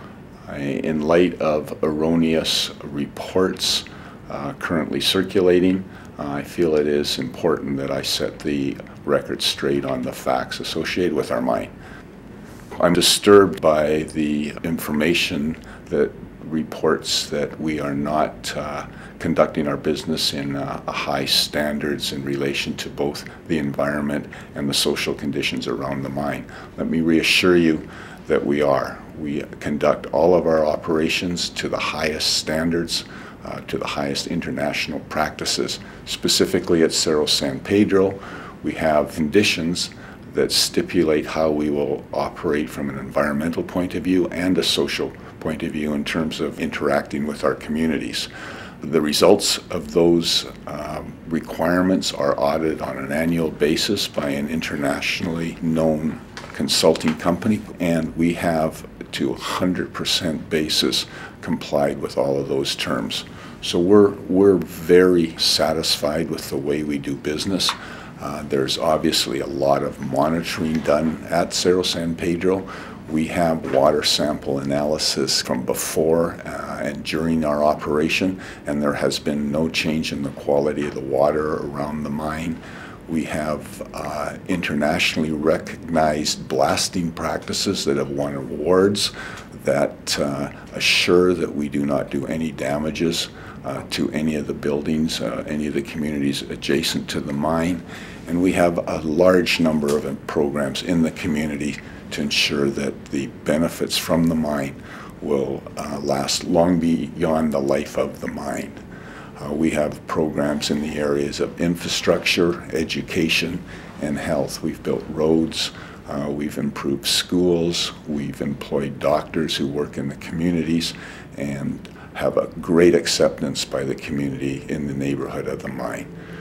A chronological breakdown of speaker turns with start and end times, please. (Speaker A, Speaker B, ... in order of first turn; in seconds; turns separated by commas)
Speaker A: 0.4-11.7, Speaker A: 12.8-48.3, Speaker A: 48.8-108.8, Speaker A: 109.4-126.1